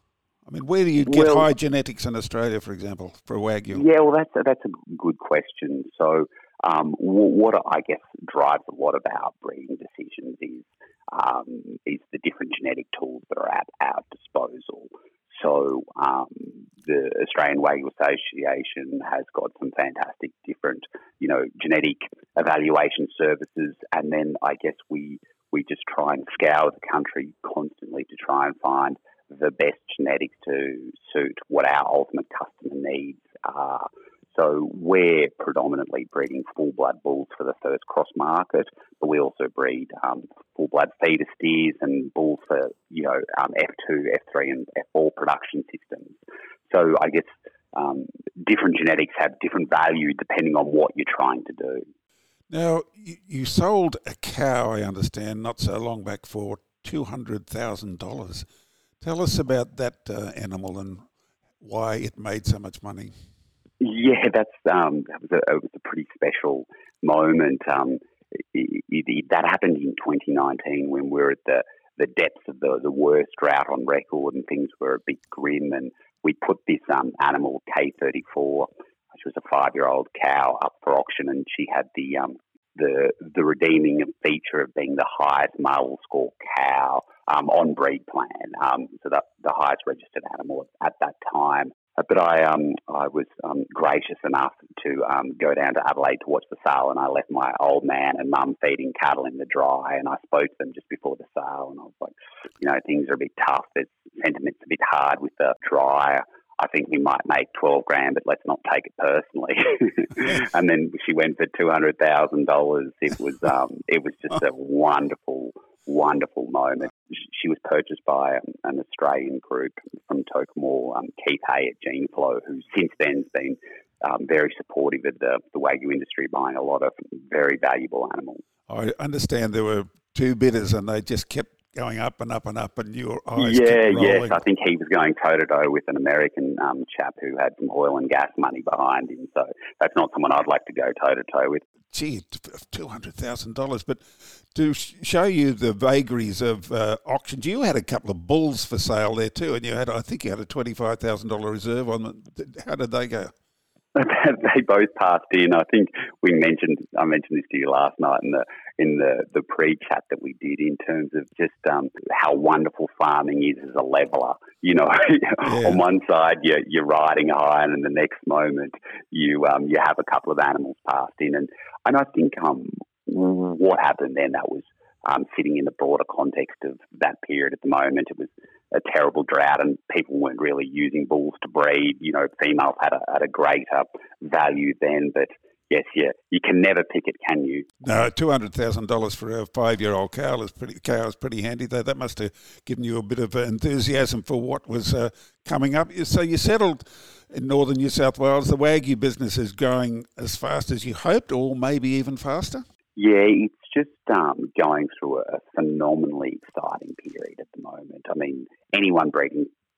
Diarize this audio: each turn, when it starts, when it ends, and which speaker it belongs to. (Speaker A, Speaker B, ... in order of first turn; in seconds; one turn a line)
Speaker A: 0.5-3.9
Speaker B: 1.0-1.5
Speaker B: 3.7-46.2
Speaker B: 46.7-51.9
Speaker A: 52.5-58.5
Speaker A: 59.0-61.0
Speaker A: 61.6-63.1
Speaker B: 63.8-128.4
Speaker A: 128.7-134.4
Speaker B: 133.3-141.6
Speaker A: 141.9-153.3
Speaker B: 153.9-187.7
Speaker A: 165.4-165.8
Speaker A: 187.8-202.6
Speaker B: 202.9-209.5